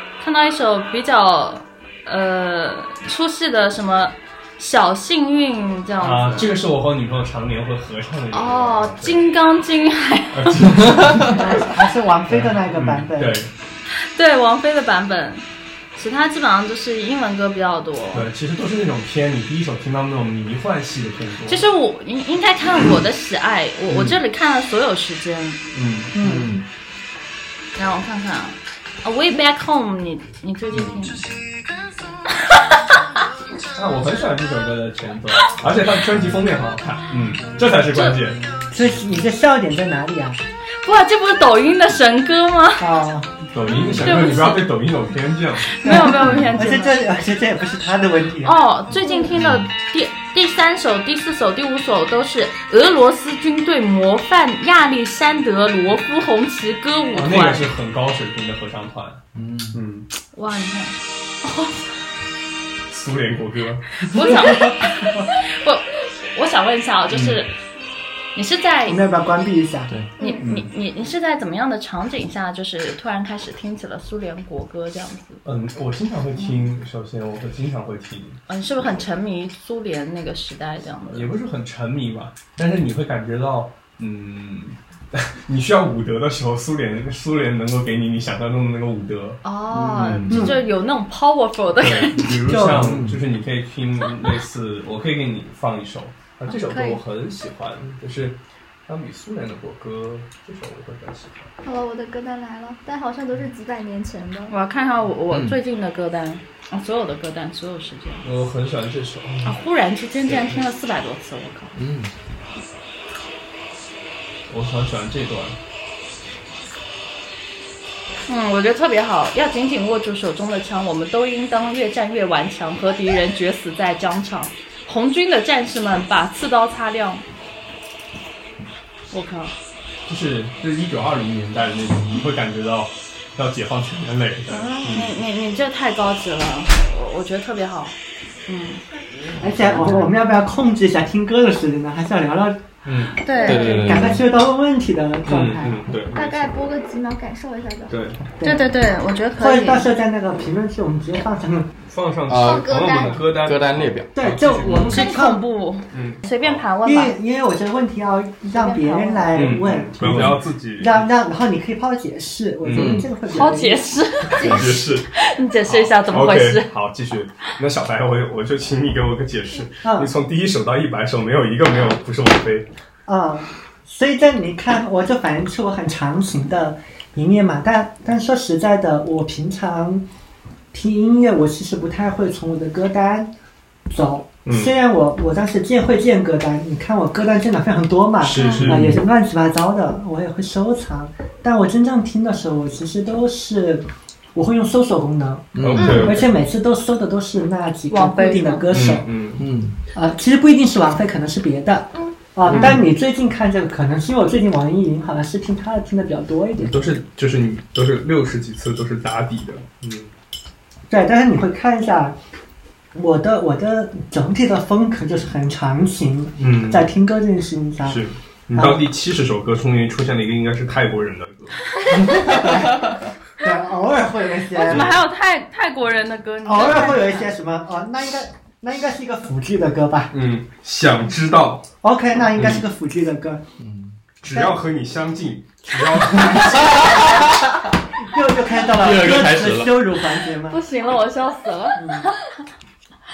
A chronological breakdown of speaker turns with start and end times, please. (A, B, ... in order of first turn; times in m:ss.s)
0:00.2-0:06.5 A
0:06.0-0:09.2 B
0:08.3-0:10.6 A
0:10.3-0:11.7 B
0:10.8-0:11.3 C
0:11.3-0:13.4 D
0:12.3-0:13.5 B
0:14.0-0:18.3 A
0:18.1-0:21.6 B
0:21.5-0:25.6 A
0:25.7-0:26.2 B
0:26.1-0:26.5 D
0:26.2-0:26.6 C
0:27.8-0:31.3 A
0:32.3-0:33.1 A
0:33.7-0:38.4 B
0:38.7-0:40.4 D
0:40.8-0:42.9 A
0:42.8-0:43.3 D
0:43.5-0:45.8 B
0:43.9-0:44.7 A
0:45.7-0:47.0 A
0:45.8-0:48.6 D
0:48.4-0:57.7 A
0:49.0-0:49.3 E
0:49.3-0:49.7 C
0:57.1-1:00.1 B
0:59.3-0:59.8 C
1:00.3-1:01.8 A
1:02.9-1:04.1 B
1:04.0-1:07.5 A
1:07.1-1:07.4 B
1:08.3-1:09.0 A
1:08.8-1:09.9 D
1:10.2-1:15.4 A
1:10.4-1:10.7 B
1:15.4-1:18.4 B
1:16.4-1:16.6 A
1:18.5-1:21.3 A
1:21.1-1:30.5 B
1:29.4-1:32.4 A
1:30.3-1:30.6 D
1:31.8-1:41.5 B
1:32.5-1:33.0 D
1:32.7-1:33.2 C
1:36.5-1:37.0 A
1:41.6-1:44.5 E
1:44.5-1:48.2 A
1:45.3-1:45.6 C
1:48.2-1:49.6 B
1:49.4-1:51.7 A
1:50.2-1:50.6 B
1:51.7-1:52.1 C
1:54.5-1:55.6 B
1:58.3-2:07.2 A
2:09.1-2:09.5 A
2:10.0-2:15.1 B
2:14.5-2:17.9 A
2:18.5-2:18.8 A
2:19.4-2:22.6 D
2:22.8-2:23.2 B
2:23.2-2:24.1 A
2:23.4-2:24.2 C
2:23.4-2:23.7 E
2:23.5-2:25.8 D
2:25.2-2:26.6 B
2:26.1-2:27.9 E
2:27.9-2:28.2 B
2:28.4-2:28.7 D
2:28.4-2:29.9 A
2:29.4-2:31.7 D
2:31.9-2:35.0 B
2:32.3-2:34.1 C
2:32.4-2:33.3 E
2:34.1-2:35.4 D
2:34.6-2:37.1 A
2:35.9-2:36.6 B
2:36.8-2:43.8 D
2:38.5-2:39.2 E
2:39.3-2:41.0 B
2:42.6-2:43.0 B
2:42.7-2:43.1 C
2:43.3-2:46.7 A
2:44.3-2:45.1 B
2:44.4-2:44.8 E
2:45.6-2:52.7 B
2:49.8-2:50.1 D
2:53.0-3:00.0 D
3:00.7-3:03.3 D
3:03.9-3:19.1 D
3:04.4-3:04.7 B
3:08.2-3:09.0 B
3:15.5-3:16.1 C
3:15.6-3:16.3 B
3:15.8-3:16.1 E
3:17.9-3:18.6 A
3:18.7-3:19.4 B
3:19.4-3:19.8 C
3:19.9-3:26.8 D
3:22.5-3:22.8 B
3:26.6-3:30.1 B
3:30.9-3:32.2 D
3:32.9-3:38.0 D
3:36.4-3:36.9 B
3:37.8-3:42.6 B
3:38.5-3:38.8 D
3:41.8-3:42.1 A
3:42.0-3:42.8 D
3:43.4-3:44.9 D
3:44.5-3:47.3 A
3:44.7-3:45.0 B
3:46.4-3:50.1 D
3:50.1-3:51.6 B
3:51.8-3:53.4 D
3:52.4-3:52.6 B
3:53.6-3:53.9 C
3:54.2-3:57.2 B
3:54.3-3:54.6 D
3:56.2-3:57.5 C
3:58.0-4:00.6 D
3:58.7-3:59.7 C
4:00.5-4:02.4 A
4:01.7-4:02.1 D